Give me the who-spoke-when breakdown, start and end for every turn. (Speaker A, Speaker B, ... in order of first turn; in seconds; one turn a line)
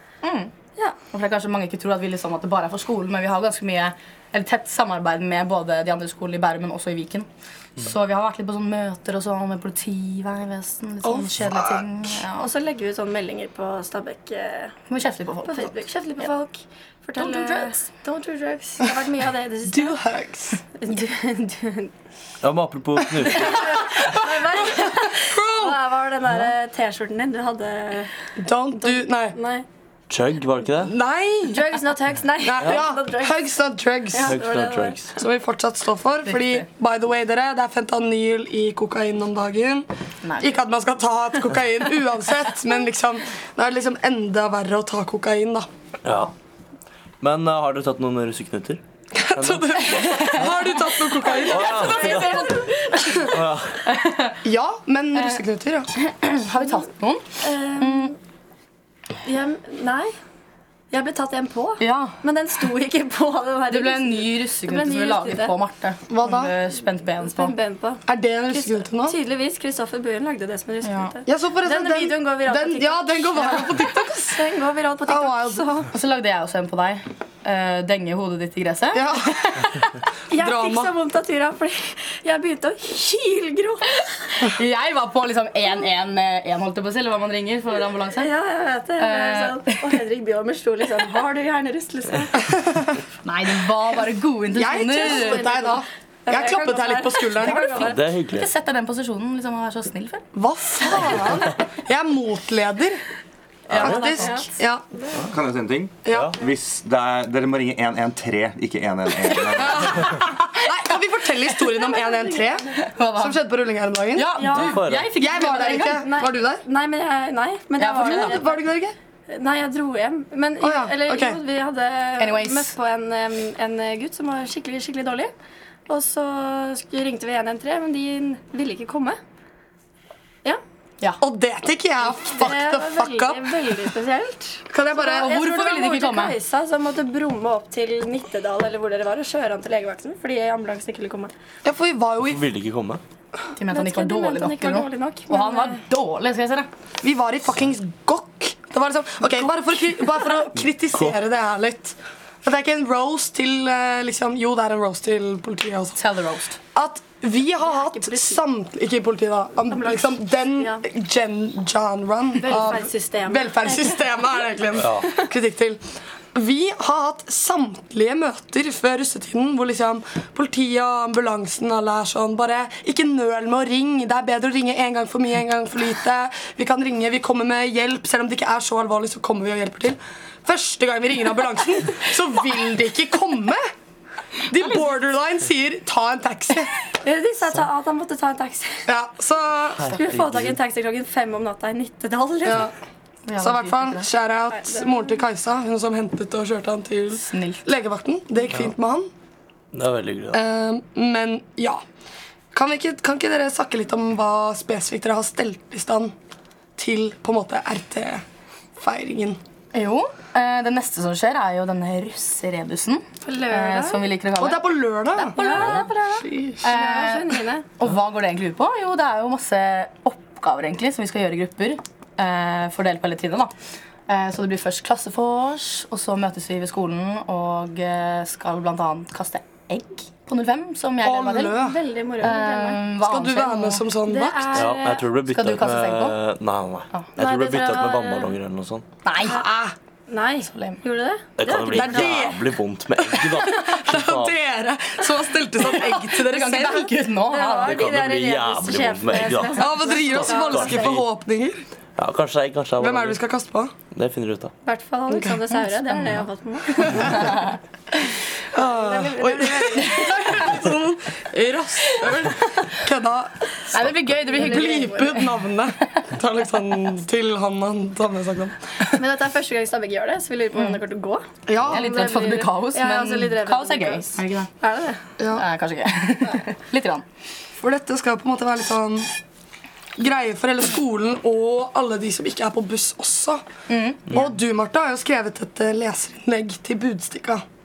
Speaker A: 0.2-0.5
Speaker A: 1.1-7.3
Speaker A: 7.8-12.5
Speaker B: 11.0-11.8
Speaker C: 12.3-14.7
Speaker A: 14.9-16.3
Speaker C: 15.4-20.0
Speaker A: 17.2-17.8
Speaker B: 19.7-20.6
Speaker C: 20.8-21.9
Speaker D: 22.4-23.8
Speaker C: 23.2-28.1
Speaker B: 25.3-25.8
Speaker B: 28.4-29.4
Speaker C: 28.8-29.6
Speaker D: 30.1-30.9
Speaker B: 30.8-31.7
Speaker C: 31.5-33.6
Speaker B: 32.4-34.4
Speaker C: 34.1-35.2
Speaker D: 34.2-35.1
Speaker B: 35.2-39.9
Speaker A: 36.3-36.6
Speaker A: 40.2-40.6
Speaker B: 40.4-45.7
Speaker D: 46.0-46.3
Speaker D: 47.2-48.8
Speaker B: 49.1-52.1
Speaker D: 49.3-50.4
Speaker A: 49.8-51.3
Speaker C: 51.2-53.3
Speaker D: 51.5-52.5
Speaker D: 53.3-53.8
Speaker A: 53.9-54.4
Speaker B: 54.4-55.9
Speaker A: 56.0-57.2
Speaker C: 57.4-58.1
Speaker A: 57.8-58.1
Speaker C: 59.2-60.1
Speaker C: 60.9-65.5
Speaker A: 61.8-62.1
Speaker A: 63.7-67.5
Speaker B: 66.1-66.5
Speaker C: 67.2-75.9
Speaker B: 68.1-69.2
Speaker A: 70.8-71.1
Speaker B: 71.3-74.3
Speaker B: 75.1-75.6
Speaker A: 75.9-79.9
Speaker B: 78.9-79.4
Speaker C: 80.3-84.5
Speaker B: 80.3-80.9
Speaker A: 84.4-88.3
Speaker C: 88.2-92.6
Speaker A: 89.0-89.8
Speaker A: 93.2-95.5
Speaker B: 94.5-97.7
Speaker C: 94.9-98.0
Speaker A: 97.4-100.2
Speaker D: 97.7-98.5
Speaker B: 100.3-103.0
Speaker A: 100.8-101.3
Speaker D: 103.7-104.3
Speaker A: 103.8-104.3
Speaker B: 103.8-104.8
Speaker C: 103.8-105.3
Speaker E: 105.3-110.2
Speaker B: 106.0-106.3
Speaker D: 106.1-106.3
Speaker B: 109.5-114.4
Speaker A: 110.0-110.4
Speaker C: 112.0-112.7
Speaker A: 112.8-113.4
Speaker A: 114.1-116.0
Speaker C: 114.3-114.8
Speaker D: 114.5-115.1
Speaker B: 115.2-116.6
Speaker C: 115.4-118.6
Speaker A: 117.8-118.4
Speaker B: 118.0-118.9
Speaker C: 119.3-125.3
Speaker B: 120.6-121.4
Speaker A: 122.2-122.7
Speaker C: 125.9-129.2
Speaker B: 131.2-133.5
Speaker C: 132.0-141.3
Speaker B: 134.7-135.3
Speaker A: 135.1-136.3
Speaker B: 141.6-142.4
Speaker D: 142.2-143.0
Speaker A: 143.5-146.7
Speaker C: 143.7-145.8
Speaker B: 147.0-156.0
Speaker A: 155.9-156.6
Speaker B: 156.7-165.8
Speaker C: 157.6-158.4
Speaker C: 159.7-160.8
Speaker C: 162.4-164.1
Speaker D: 164.8-165.1
Speaker B: 166.3-183.6
Speaker B: 184.5-186.7
Speaker C: 186.9-188.8
Speaker B: 188.9-189.9
Speaker D: 189.8-190.6
Speaker C: 189.9-192.7
Speaker B: 192.4-192.7
Speaker A: 193.2-194.1
Speaker B: 193.4-199.1
Speaker C: 194.5-195.2
Speaker A: 197.2-197.6
Speaker D: 199.7-200.4
Speaker B: 200.3-201.8
Speaker B: 202.5-206.1
Speaker B: 206.8-208.2
Speaker B: 208.8-209.4
Speaker A: 209.7-223.5
Speaker C: 213.2-214.0
Speaker B: 214.4-215.4
Speaker C: 215.3-217.7
Speaker B: 216.2-216.6
Speaker A: 224.1-231.6
Speaker B: 231.0-231.8
Speaker C: 231.5-232.8
Speaker A: 232.2-233.8
Speaker B: 233.0-234.7
Speaker C: 234.1-235.0
Speaker D: 234.5-238.8
Speaker A: 235.3-236.2
Speaker C: 237.2-238.4
Speaker A: 239.0-239.4
Speaker B: 239.2-239.7
Speaker C: 240.1-242.3
Speaker A: 240.4-240.8
Speaker D: 241.4-244.3
Speaker B: 241.7-242.4
Speaker B: 243.1-246.9
Speaker A: 245.6-247.9
Speaker C: 247.2-250.9
Speaker D: 247.6-251.1
Speaker B: 249.6-251.6
Speaker D: 252.0-253.2
Speaker B: 252.8-253.7
Speaker D: 253.9-254.5
Speaker C: 254.6-257.5
Speaker B: 255.1-255.5
Speaker B: 256.8-257.2
Speaker C: 258.5-260.7
Speaker B: 258.5-263.4
Speaker C: 261.7-262.7
Speaker A: 263.7-265.4
Speaker C: 264.3-265.2
Speaker B: 264.3-268.6
Speaker C: 268.9-275.0
Speaker A: 270.5-270.8
Speaker B: 271.5-271.8
Speaker A: 271.6-274.5
Speaker B: 275.2-275.4
Speaker A: 275.3-277.0
Speaker B: 277.6-279.1
Speaker B: 280.0-283.4
Speaker A: 283.7-284.0
Speaker B: 284.1-287.4